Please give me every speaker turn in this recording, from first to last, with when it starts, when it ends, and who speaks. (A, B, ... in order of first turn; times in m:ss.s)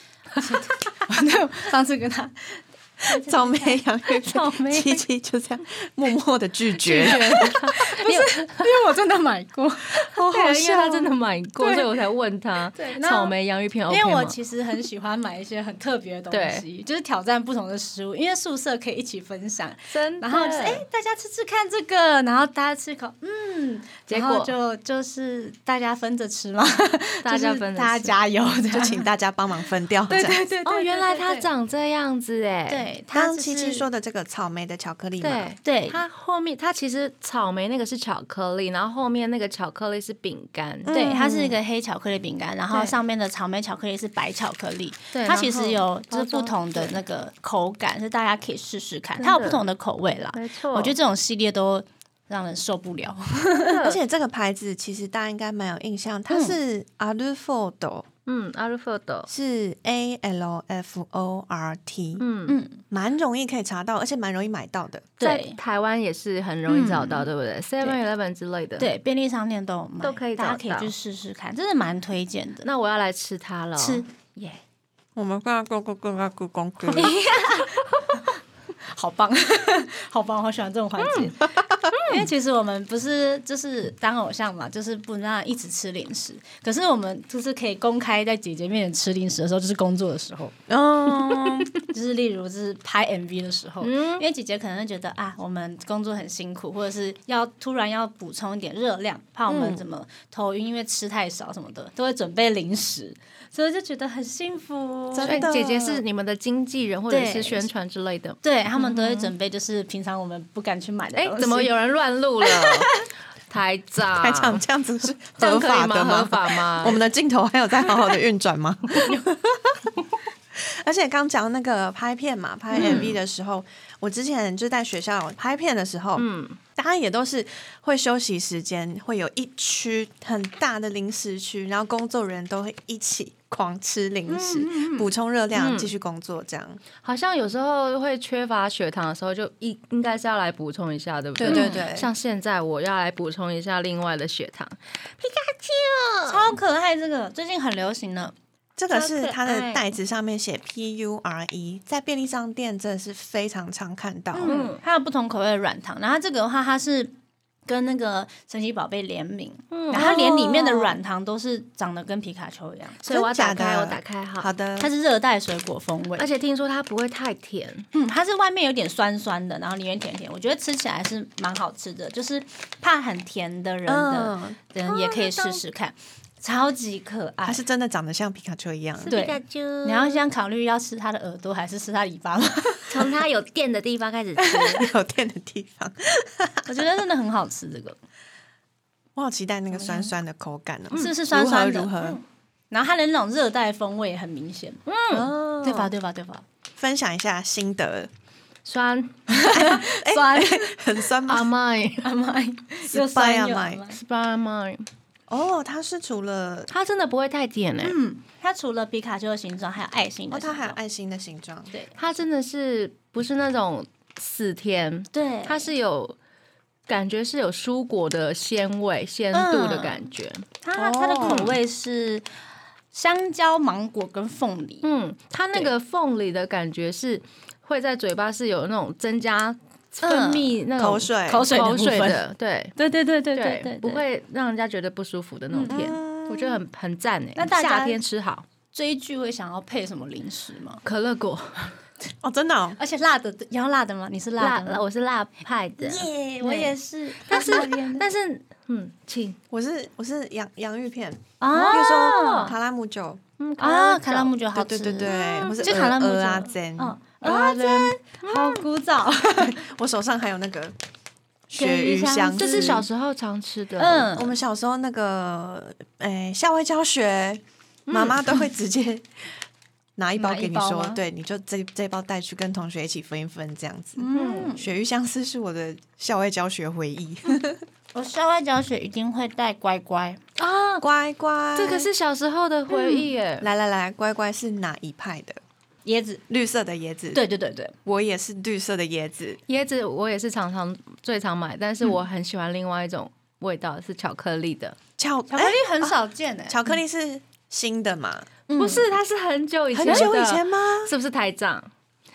0:00.4-0:00.6 A
0:00.4-0:03.8 B
0:03.1-0:07.6 C
0:04.2-0:05.0 A
0:06.8-0:10.0 B
0:07.0-0:08.7 A
0:10.0-0:14.3 A
0:10.2-0:10.8 C
0:11.6-0:11.9 B
0:12.7-0:13.3 B
0:13.9-0:29.1 B
0:16.3-0:16.6 A
0:19.9-0:20.8 A
0:24.1-0:24.5 A
0:27.2-0:28.1 A
0:28.7-0:30.4 C
0:30.1-0:31.5 B
0:30.6-0:32.8 A
0:32.7-0:33.8 B
0:33.1-0:35.5 C
0:35.2-0:40.9 A
0:35.6-0:36.0 B
0:40.8-0:41.6 C
0:40.9-0:53.8 B
0:45.1-0:47.0 A
0:49.2-0:49.6 A
0:50.3-0:50.9 A
0:53.6-0:54.0 A
0:53.8-0:58.0 C
0:56.3-0:56.6 B
0:58.2-0:59.3 A
0:59.3-1:02.2 C
1:02.2-1:02.6 A
1:02.5-1:02.8 B
1:02.9-1:05.1 C
1:05.2-1:05.6 B
1:05.2-1:08.9 A
1:06.7-1:07.3 B
1:08.8-1:12.7 B
1:10.0-1:10.9 A
1:12.6-1:14.6 A
1:13.8-1:14.0 B
1:15.2-1:17.1 C
1:16.9-1:30.5 B
1:17.3-1:18.1 A
1:21.0-1:21.3 A
1:21.9-1:22.2 A
1:30.7-1:31.7 C
1:31.7-1:45.5 B
1:33.8-1:34.2 A
1:39.5-1:39.8 C
1:45.1-1:46.0 C
1:45.2-1:49.3 A
1:47.1-1:47.7 B
1:48.4-1:51.7 B
1:51.2-1:52.9 A
1:52.4-1:53.0 B
1:53.5-1:54.6 A
1:54.2-2:00.0 C
1:55.4-1:57.0 A
2:00.5-2:16.8 C
2:02.7-2:03.2 A
2:02.8-2:03.1 B
2:06.2-2:06.6 A
2:14.3-2:15.9 A
2:17.0-2:26.5 A
2:21.4-2:22.1 C
2:21.4-2:21.8 B
2:26.3-2:28.3 B
2:28.8-2:34.5 C
2:28.9-2:29.9 A
2:34.3-2:37.1 B
2:34.4-2:34.8 A
2:37.7-2:43.0 B
2:39.7-2:40.1 A
2:39.9-2:41.0 C
2:43.0-2:44.5 A
2:43.1-2:44.9 C
2:44.8-2:46.3 B
2:46.2-2:47.9 A
2:47.9-2:57.6 B
2:53.9-2:54.6 C
2:54.8-2:55.6 A
2:57.4-2:59.1 C
2:59.0-3:00.2 A
2:59.1-3:03.1 B
3:02.9-3:04.8 A
3:04.4-3:04.8 B
3:04.7-3:06.8 C
3:06.7-3:08.0 B
3:09.2-3:12.2 C
3:09.7-3:10.1 B
3:10.9-3:14.8 B
3:14.8-3:15.3 A
3:15.1-3:15.9 C
3:15.6-3:16.4 B
3:16.8-3:18.1 C
3:18.6-3:19.4 A
3:19.3-3:20.7 B
3:19.5-3:21.5 C
3:21.3-3:22.1 A
3:22.0-3:24.0 B
3:22.8-3:23.8 C
3:23.9-3:24.8 A
3:25.3-3:26.7 C
3:26.7-3:28.0 A
3:27.8-3:30.8 B
3:30.3-3:31.7 C
3:32.0-3:36.2 A
3:35.1-3:35.7 B
3:36.9-3:40.4 A
3:39.3-3:40.0 B
3:40.6-3:42.2 B
3:40.7-3:41.5 C
3:41.2-3:41.6 A
3:42.9-3:44.8 B
3:44.8-3:52.7 A
3:50.0-3:50.5 B
3:50.8-3:51.4 C
3:51.3-3:52.2 B
3:52.8-3:54.0 B
3:53.3-3:58.4 A
3:55.5-3:55.8 B
3:55.7-3:56.6 C
3:57.4-3:58.0 B
3:58.7-4:00.8 B
4:00.8-4:01.7 A
4:02.2-4:02.8 C
4:02.8-4:04.8 B
4:04.4-4:09.4 A
4:05.8-4:08.1 B
4:09.5-4:13.2 C
4:11.4-4:12.5 B
4:11.5-4:12.5 A
4:13.4-4:14.3 A
4:13.6-4:19.6 B
4:14.5-4:17.0 C
4:15.0-4:15.8 A
4:17.2-4:18.6 A
4:19.4-4:20.7 C
4:21.5-4:22.8 C
4:21.5-4:22.9 B
4:22.4-4:24.1 A
4:23.8-4:24.3 B
4:24.1-4:29.1 C
4:27.9-4:28.2 A
4:30.0-4:37.6 C
4:30.2-4:31.0 B
4:34.0-4:34.7 B
4:34.1-4:34.5 A
4:37.9-4:40.2 B
4:40.4-4:40.8 A
4:40.8-4:41.9 C
4:41.6-4:43.5 A
4:42.8-4:43.0 B
4:43.4-4:45.4 C
4:45.8-4:46.2 B
4:46.3-4:47.2 C
4:47.1-4:47.7 B
4:47.8-4:49.4 C
4:49.5-4:54.8 A
4:55.0-4:55.9 C
4:55.3-4:56.6 B
4:56.5-4:58.3 C
4:58.5-4:58.9 B
4:58.6-5:01.7 A
4:59.7-5:00.9 C
4:59.8-5:00.1 B